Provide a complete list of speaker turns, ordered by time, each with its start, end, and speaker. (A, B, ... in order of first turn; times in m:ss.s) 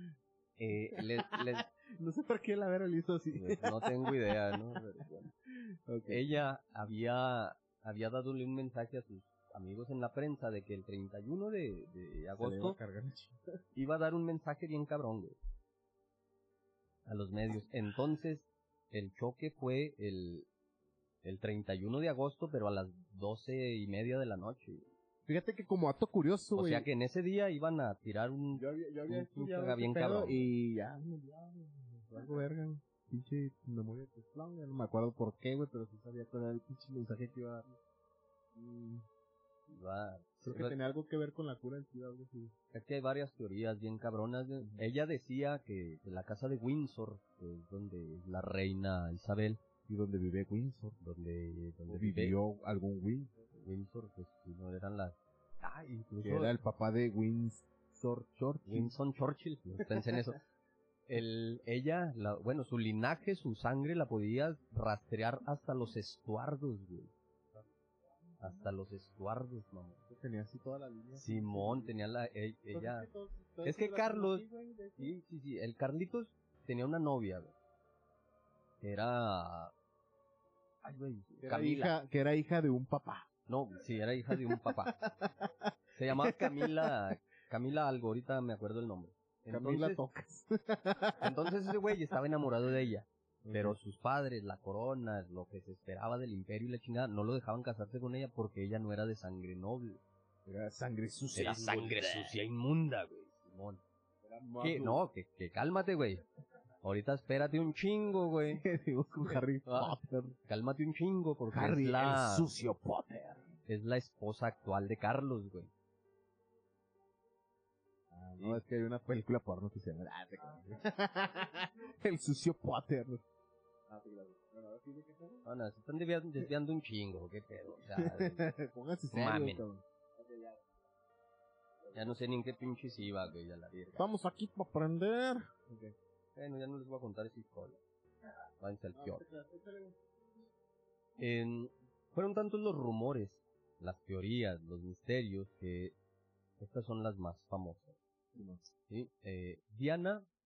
0:00.6-0:01.7 A
0:00.9-0:06.3 B
0:03.3-0:05.3 A
0:06.1-0:12.8 A
0:12.3-0:13.4 B
0:13.7-0:15.4 A
0:17.0-0:20.5 A
0:21.2-0:24.8 A
0:25.2-0:26.9 B
0:26.5-0:30.5 A
0:28.5-0:37.8 B
0:38.5-0:39.0 B
0:39.7-0:40.8 A
0:40.4-0:42.5 B
0:42.7-0:49.6 A
0:49.9-0:51.0 B
0:51.0-0:52.4 A
0:51.9-0:53.3 B
0:53.5-0:56.5 A
0:56.2-0:58.9 B
0:58.7-1:00.4 A
1:01.1-1:07.1 A
1:08.4-1:10.0 A
1:10.1-1:11.9 B
1:11.2-1:13.1 A
1:12.7-1:15.1 B
1:13.6-1:14.4 A
1:15.0-1:17.5 A
1:18.8-1:19.7 A
1:20.8-1:22.0 A
1:21.4-1:23.3 B
1:23.5-1:25.0 A
1:24.3-1:27.0 B
1:26.0-1:30.0 A
1:29.5-1:31.7 B
1:31.2-1:40.0 A
1:33.4-1:33.8 B
1:40.4-1:42.3 B
1:41.3-1:43.8 A
1:44.2-1:45.0 B
1:44.6-1:46.2 A
1:46.8-1:48.6 A
1:48.5-1:50.4 B
1:49.6-1:49.9 A
1:50.5-1:52.5 A
1:51.5-1:53.4 B
1:53.7-1:55.7 A
1:58.1-2:03.2 B
2:03.9-2:05.4 B
2:05.4-2:08.5 A
2:07.9-2:10.6 B
2:09.1-2:09.6 A
2:11.8-2:12.2 B
2:11.9-2:14.1 A
2:13.9-2:15.9 B
2:16.4-2:17.8 A
2:18.6-2:19.2 A
2:18.9-2:20.0 B
2:21.2-2:26.0 A
2:26.6-2:28.0 A
2:28.3-2:28.6 B
2:28.9-2:30.3 A